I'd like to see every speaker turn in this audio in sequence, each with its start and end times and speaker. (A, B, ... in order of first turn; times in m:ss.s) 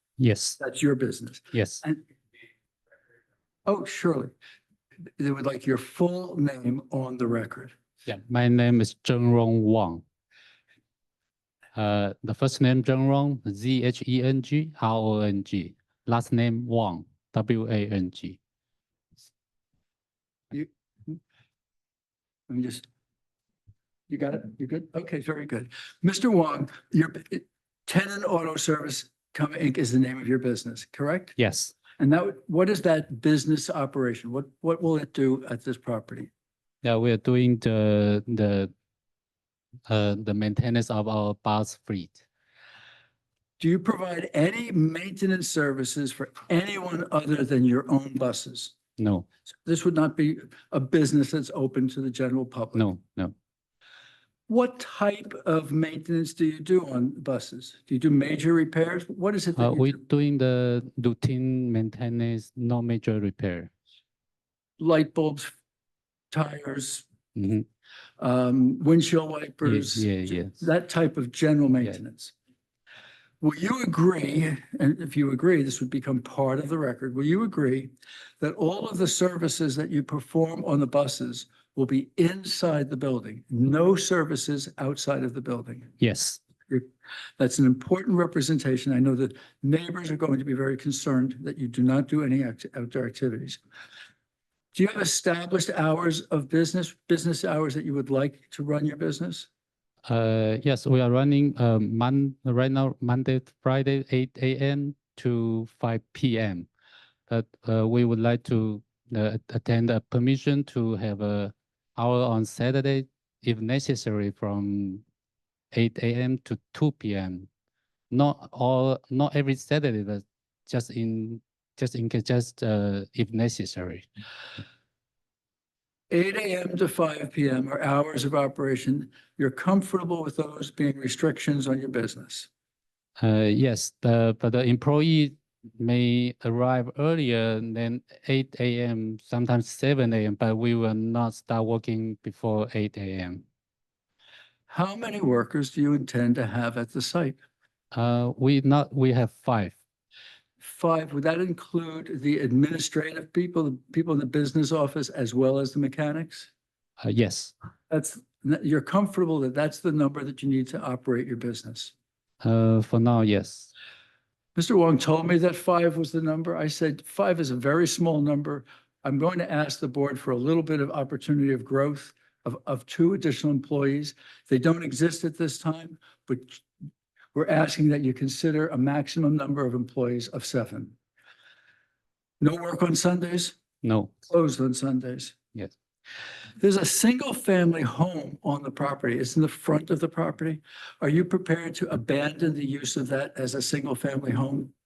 0:00.2-0:00.6 A
0:00.6-0:02.0 B
0:01.5-0:01.8 A
0:03.7-0:04.3 B
0:05.2-0:07.7 B
0:08.1-0:10.0 A
0:11.8-0:18.4 A
0:20.5-0:21.2 B
0:22.5-0:22.8 B
0:24.1-0:31.4 B
0:31.4-0:31.8 A
0:32.0-0:36.3 B
0:36.8-0:38.7 A
0:39.9-0:42.2 A
0:43.6-0:48.8 B
0:49.0-0:49.3 A
0:49.6-0:52.9 B
0:52.7-0:53.3 A
0:54.5-1:00.0 B
0:59.6-1:03.7 A
1:04.8-1:05.5 B
1:06.3-1:07.1 B
1:07.4-1:07.6 A
1:08.2-1:12.3 B
1:09.6-1:10.6 A
1:13.4-1:25.9 B
1:26.0-1:26.4 A
1:27.4-1:33.6 B
1:34.7-1:39.5 B
1:40.0-1:46.7 A
1:47.3-1:55.0 A
1:55.7-1:57.5 A
1:58.1-2:04.1 A
2:06.1-2:12.5 B
2:13.2-2:23.4 A
2:24.7-2:27.4 B
2:27.9-2:29.8 A
2:30.6-2:36.5 B
2:37.0-2:37.5 A
2:37.9-2:41.9 B
2:42.4-2:43.7 A
2:44.6-2:56.6 B
2:57.4-3:01.0 B
3:02.4-3:03.6 B
3:03.8-3:04.1 A
3:04.3-3:05.4 B
3:06.6-3:14.7 B